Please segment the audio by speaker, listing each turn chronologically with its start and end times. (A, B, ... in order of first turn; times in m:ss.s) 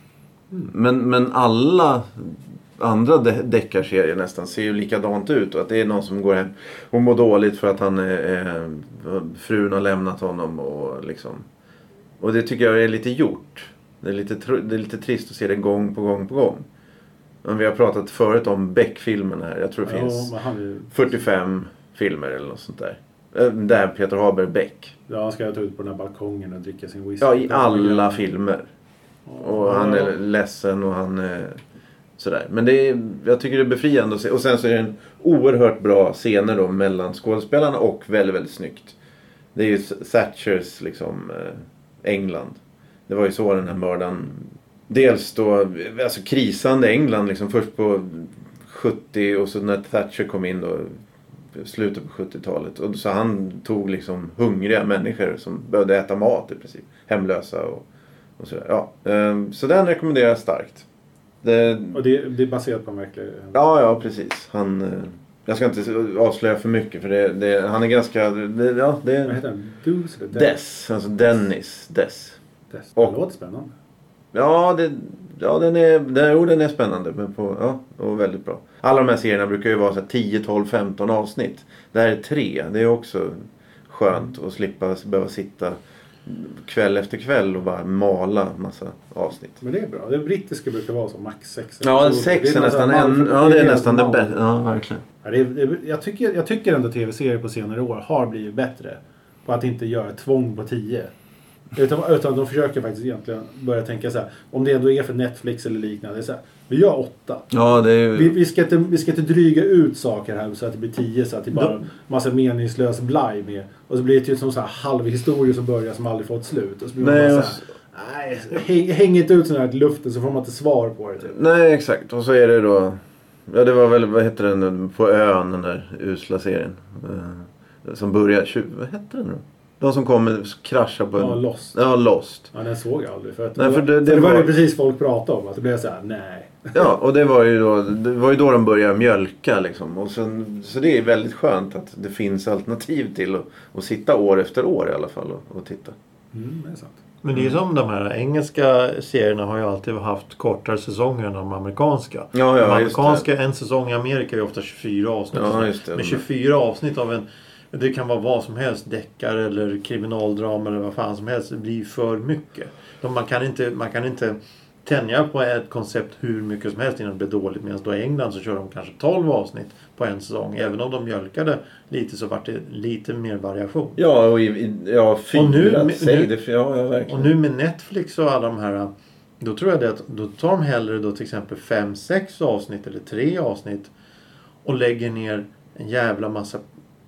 0:00.7-0:11.5 A
0:12.2-0:16.6 A
0:17.4-0:20.3 A
0:19.8-0:21.1 B
0:20.9-0:24.9 A
0:25.1-0:28.2 B
0:27.2-0:28.7 A
0:29.3-0:30.2 B
0:29.4-0:31.6 A
0:32.2-0:39.0 A
0:39.6-0:51.0 A
0:51.5-0:57.8 A
0:58.4-1:00.9 A
1:01.4-1:02.0 A
1:01.9-1:03.6 B
1:03.5-1:09.4 A
1:09.3-1:10.5 B
1:10.3-1:12.4 A
1:12.7-1:13.7 B
1:14.3-1:29.6 A
1:29.6-1:34.3 B
1:31.8-1:35.0 A
1:35.2-1:41.1 B
1:41.8-1:47.5 B
1:47.5-1:48.4 A
1:48.1-2:01.4 B
1:57.0-1:57.6 A
2:01.2-2:12.5 A
2:11.2-2:11.8 B
2:12.5-2:16.9 B
2:13.6-2:14.5 A
2:16.7-2:26.0 A
2:26.3-2:27.0 B
2:27.2-2:54.0 C
2:32.3-2:33.2 A
2:35.3-2:36.2 A
2:54.0-2:57.3 A
2:55.3-2:56.3 C
2:57.1-3:03.9 C
3:04.6-3:06.6 C